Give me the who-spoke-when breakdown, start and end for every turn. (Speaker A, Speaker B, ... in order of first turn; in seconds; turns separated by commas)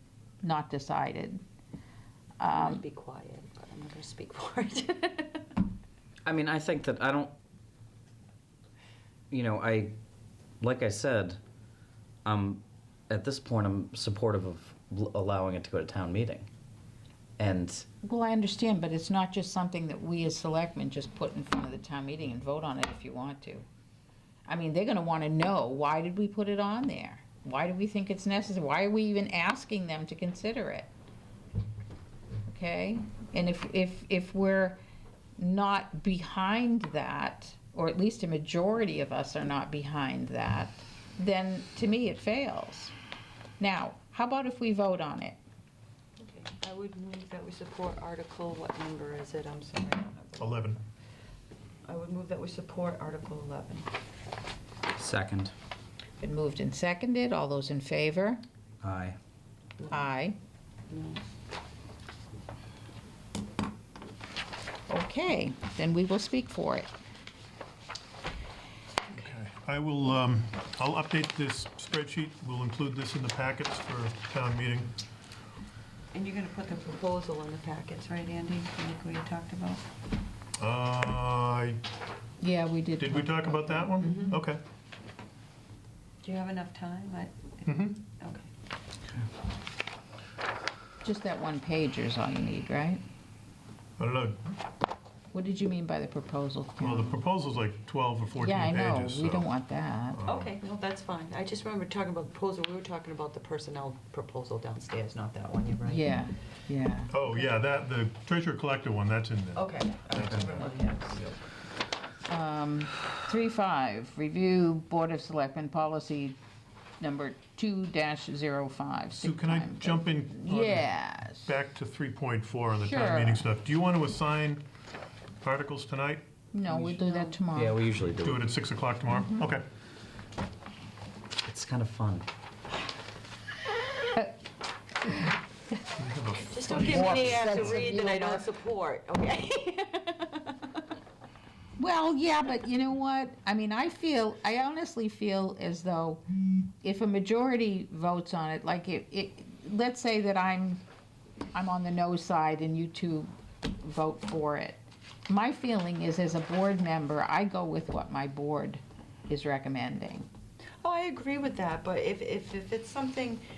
Speaker A: 0.4-1.4, Speaker A: 2.4-2.8, Speaker B: 2.5-5.5, Speaker C: 6.2-7.3, Speaker C: 9.3-9.9, Speaker C: 10.6-11.4, Speaker C: 12.2-16.5, Speaker C: 17.4-17.8, Speaker A: 18.0-23.6, Speaker A: 24.4-30.9, Speaker A: 32.5-34.8, Speaker A: 35.4-42.9, Speaker A: 43.6-45.4, Speaker B: 46.2-50.7, Speaker D: 50.4-50.8, Speaker B: 51.8-53.9, Speaker C: 55.0-55.5, Speaker A: 56.2-58.4, Speaker C: 58.8-59.2, Speaker B: 59.8-60.1, Speaker A: 59.9-60.4, Speaker B: 60.9-61.2, Speaker A: 64.9-66.9, Speaker D: 69.1-75.0, Speaker B: 76.1-79.8, Speaker D: 80.6-81.8, Speaker A: 82.4-84.2, Speaker D: 83.0-84.6, Speaker B: 84.0-84.4, Speaker B: 86.2-88.5, Speaker D: 87.7-88.0, Speaker A: 91.0-93.0, Speaker D: 94.0-94.4, Speaker A: 95.3-97.2, Speaker D: 96.8-99.5, Speaker A: 98.4-100.2, Speaker D: 100.1-100.5, Speaker B: 100.2-106.1, Speaker A: 105.8-107.2, Speaker D: 107.1-111.2, Speaker B: 109.5-111.4, Speaker A: 112.3-116.4, Speaker A: 117.0-121.5, Speaker D: 119.1-124.6, Speaker A: 122.8-123.5, Speaker D: 125.4-127.0, Speaker A: 126.5-127.8, Speaker B: 127.1-127.3, Speaker C: 127.5-128.4, Speaker D: 128.2-129.6, Speaker C: 131.4-132.3, Speaker D: 136.0-137.9, Speaker B: 136.4-140.8, Speaker A: 137.3-138.4, Speaker A: 141.8-146.2, Speaker A: 146.8-150.8, Speaker A: 151.5-160.3, Speaker B: 160.8-163.4